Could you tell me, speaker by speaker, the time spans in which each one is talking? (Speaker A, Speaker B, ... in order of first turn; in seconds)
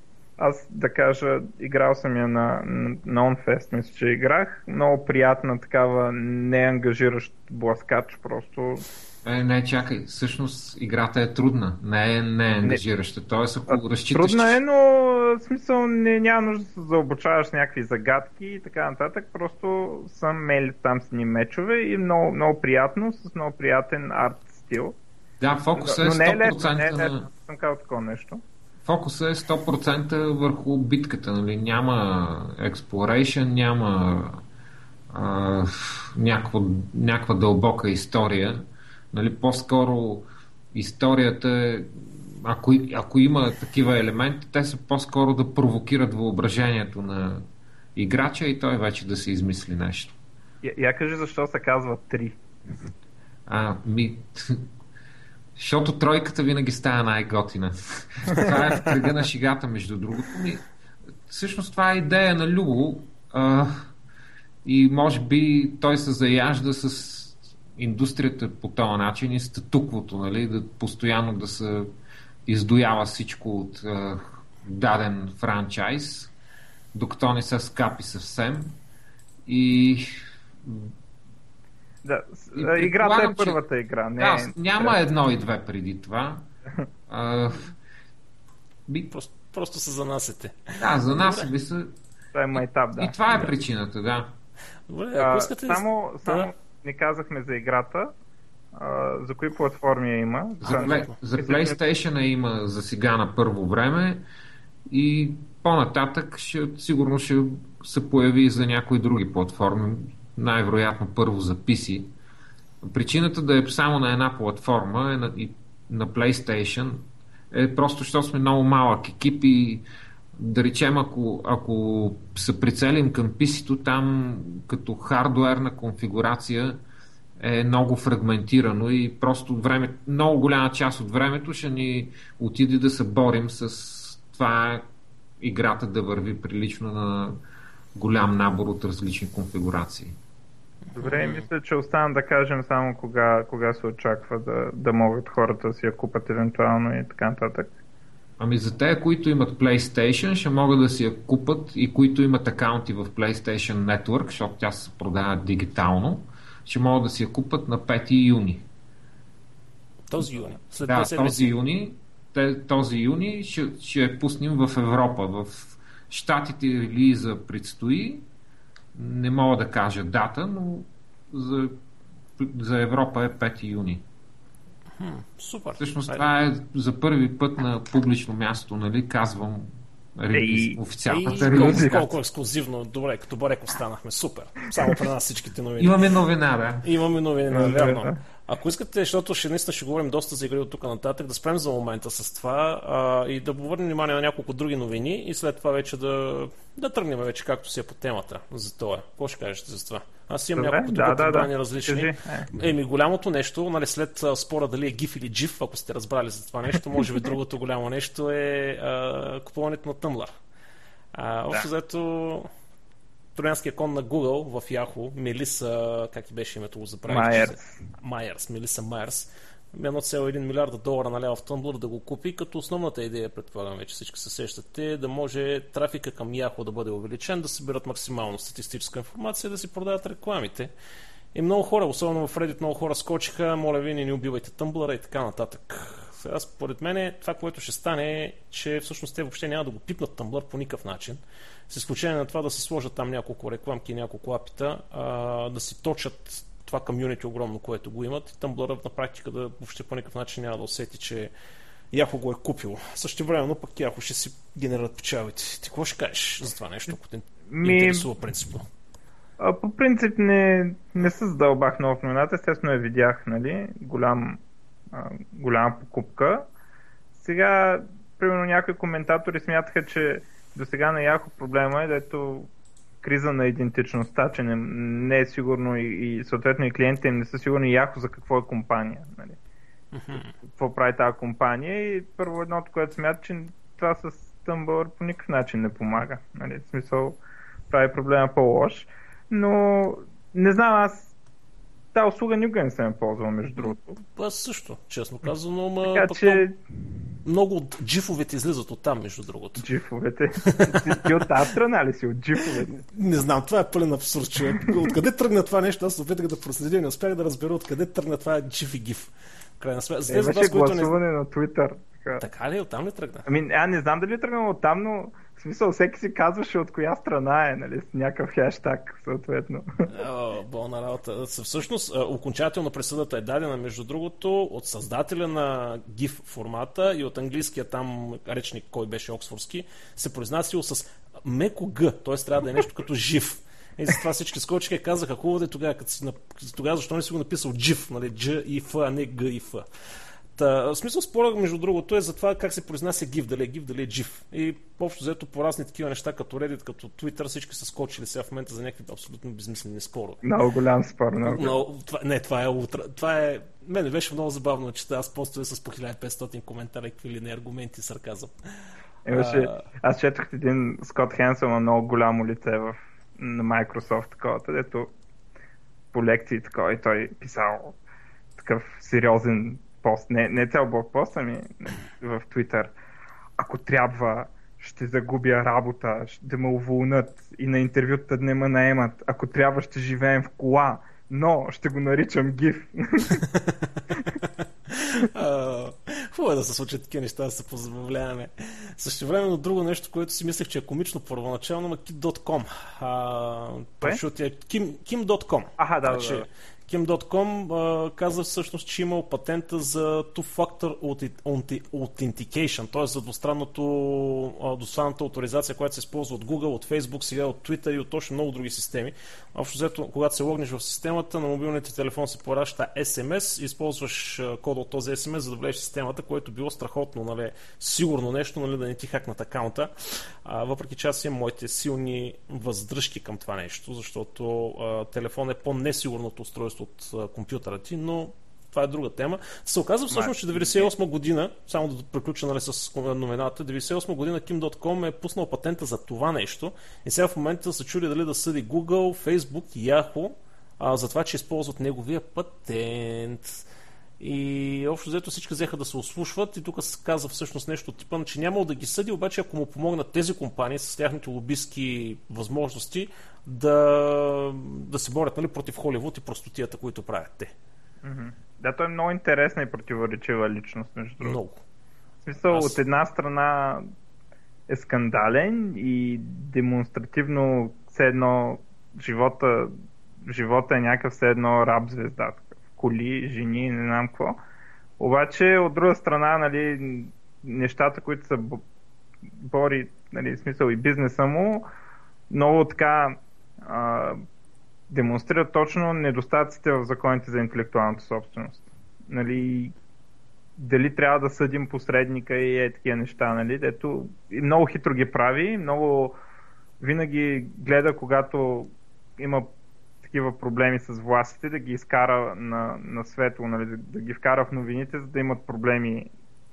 Speaker A: 0.4-8.8, 13.7-25.0, 25.8-28.4, 50.6-52.4, 82.0-85.0, 92.3-93.1, 95.2-98.1, 98.7-101.8, 141.0-147.7, 180.3-180.8, 181.4-182.0, 187.5-188.2, 200.6-202.5, 217.1-217.8, 257.5-258.1, 259.4-264.4, 264.9-266.5, 267.1-272.5, 273.0-279.4, 280.4-287.2, 287.7-291.1, 291.9-294.0, 295.9-296.5, 299.6-302.7, 310.1-312.2, 313.3-319.9, 350.2-351.6, 359.1-364.9, 365.9-367.8, 368.4-372.7, 373.4-383.2, 395.6-396.3, 429.9-430.7, 457.8-461.2, 462.1-463.7, 464.5-469.5, 470.1-474.2, 474.8-478.4, 479.2-481.5, 482.1-484.0, 484.7-489.5, 490.4-496.0, 496.6-499.3, 499.8-505.9
Speaker B: 9.2-14.6, 25.4-27.2, 28.9-34.4, 35.1-50.2, 53.5-54.7, 55.6-60.7, 61.3-63.9, 64.7-71.9, 72.5-76.3, 76.9-78.8, 79.5-80.9, 82.5-83.6, 84.2-86.5, 87.1-87.8, 90.8-92.0, 93.0-94.4, 100.6-104.2, 104.9-112.1, 112.8-119.8, 120.4-126.8, 127.4-134.9, 135.4-137.4, 137.9-140.2, 148.4-158.7, 160.9-168.3, 168.9-171.8, 172.4-174.1, 175.8-182.1, 185.8-186.9
Speaker C: 89.1-91.5, 94.9-96.5, 100.7-101.1, 140.9-141.5, 160.1-161.6, 175.0-176.2, 181.1-185.9, 186.8-210.3, 211.1-212.5, 213.4-230.7, 231.3-251.3, 251.9-258.7, 279.9-280.3, 293.6-296.4, 297.2-299.6, 300.5-301.1, 302.7-310.9, 312.2-313.3, 319.9-339.7, 340.4-350.2, 351.2-358.3, 359.1-359.6, 383.2-443.4, 444.0-457.3, 461.0-461.4, 462.3-462.6